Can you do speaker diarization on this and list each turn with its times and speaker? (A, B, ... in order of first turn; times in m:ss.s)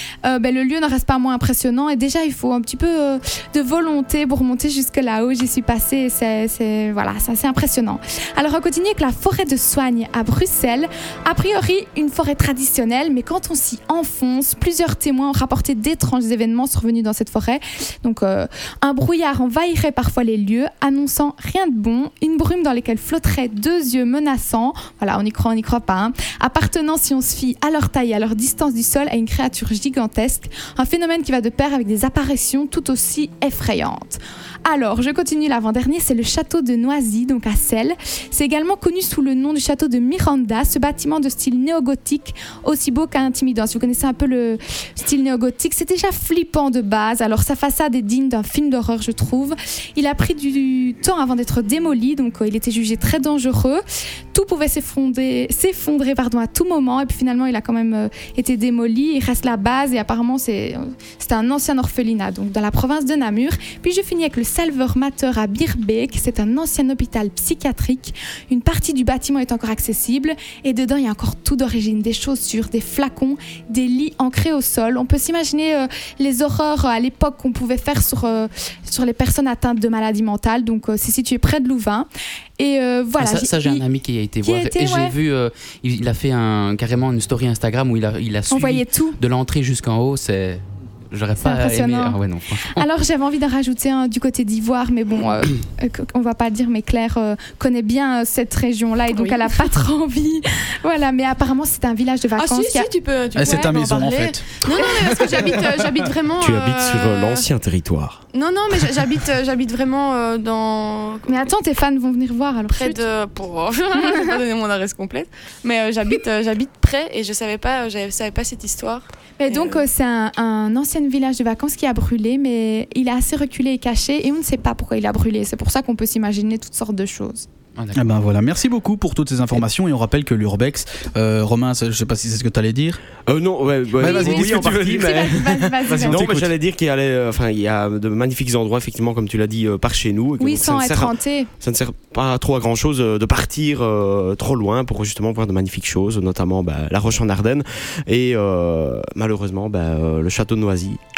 0:00.2-0:53.8 A
0:54.3-1:22.1 A
1:22.6-1:23.9 A
1:23.2-1:32.9 B
1:24.4-1:25.2 A
1:28.5-1:29.2 A
1:31.4-1:42.9 A
1:39.1-1:39.4 C
1:42.4-1:47.5 C
1:43.4-1:44.8 D
1:46.4-1:48.2 E
1:48.3-1:51.5 C
1:51.3-1:53.0 A
1:52.7-1:59.8 C
1:53.9-1:54.4 A
1:59.4-2:07.5 A
2:07.8-2:08.0 B
2:07.9-2:13.0 D
2:13.3-2:31.0 E
2:14.0-2:16.5 D
2:14.0-2:16.3 A
2:20.4-2:21.5 A